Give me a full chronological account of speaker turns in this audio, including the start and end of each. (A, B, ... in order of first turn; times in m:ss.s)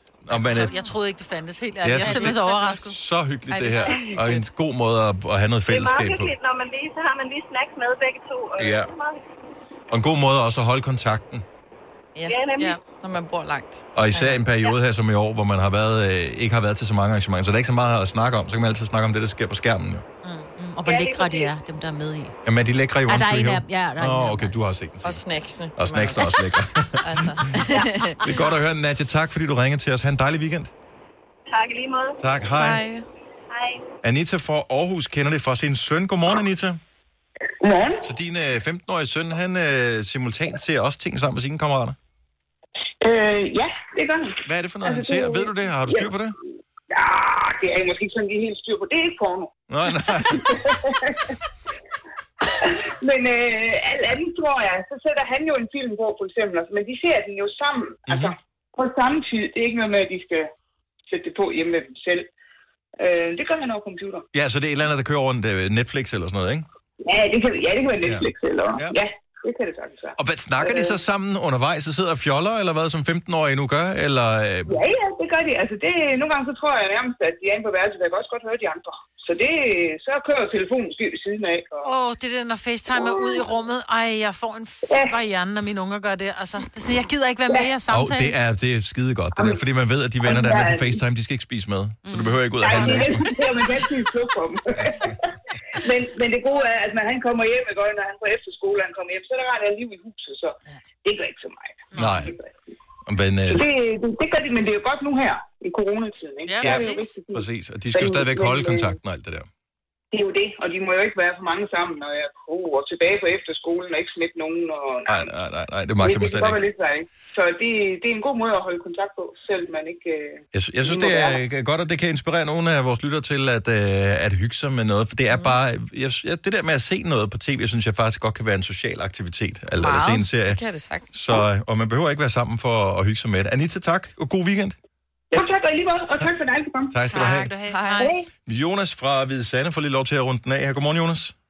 0:00.2-0:00.8 A
0:00.4-0:03.0 B
0:01.8-0:06.3 A
0:03.5-0:04.5 C
0:05.7-0:09.2 D
0:08.6-0:08.9 A
0:09.9-0:11.4 A
0:12.1-0:14.3 C
0:12.3-0:12.8 D
0:13.9-0:20.0 A
0:20.6-0:22.3 E
0:20.8-0:21.5 D
0:22.4-0:25.2 A
0:23.1-0:24.6 E
0:25.0-0:26.3 C
0:25.8-0:27.4 A
0:27.0-0:28.3 C
0:28.2-0:30.7 A
0:31.5-0:32.2 D
0:32.2-0:32.8 A
0:32.5-0:33.0 C
0:33.5-0:33.8 D
0:34.0-0:36.8 A
0:37.6-0:38.1 F
0:38.0-0:42.0 A
0:43.0-0:46.1 F
0:44.4-0:46.4 A
0:46.9-0:51.3 F
0:49.7-0:50.5 A
0:52.6-1:00.5 F
0:58.1-0:58.3 A
1:01.1-1:02.3 F
1:03.0-1:04.2 F
1:04.3-1:06.7 A
1:07.0-1:11.0 F
1:08.0-1:09.0 A
1:10.2-1:14.8 A
1:14.7-1:21.9 F
1:21.8-1:28.3 B
1:23.0-1:23.4 F
1:24.9-1:25.1 F
1:27.9-1:33.3 A
1:29.3-1:29.6 F
1:30.2-1:31.0 F
1:32.0-1:32.4 E
1:32.6-1:42.7 F
1:34.8-1:35.1 A
1:41.9-1:42.2 B
1:42.0-1:42.3 A
1:43.0-1:43.7 A
1:43.5-1:49.0 F
1:46.4-1:47.1 B
1:46.6-1:49.5 A
1:50.1-1:55.3 F
1:55.0-1:56.6 A
1:56.0-2:01.4 F
2:00.5-2:10.6 A
2:09.8-2:11.4 C
2:11.1-2:14.8 A
2:15.3-2:17.0 F
2:16.9-2:17.5 A
2:17.1-2:18.2 B
2:17.7-2:18.1 C
2:18.4-2:21.3 A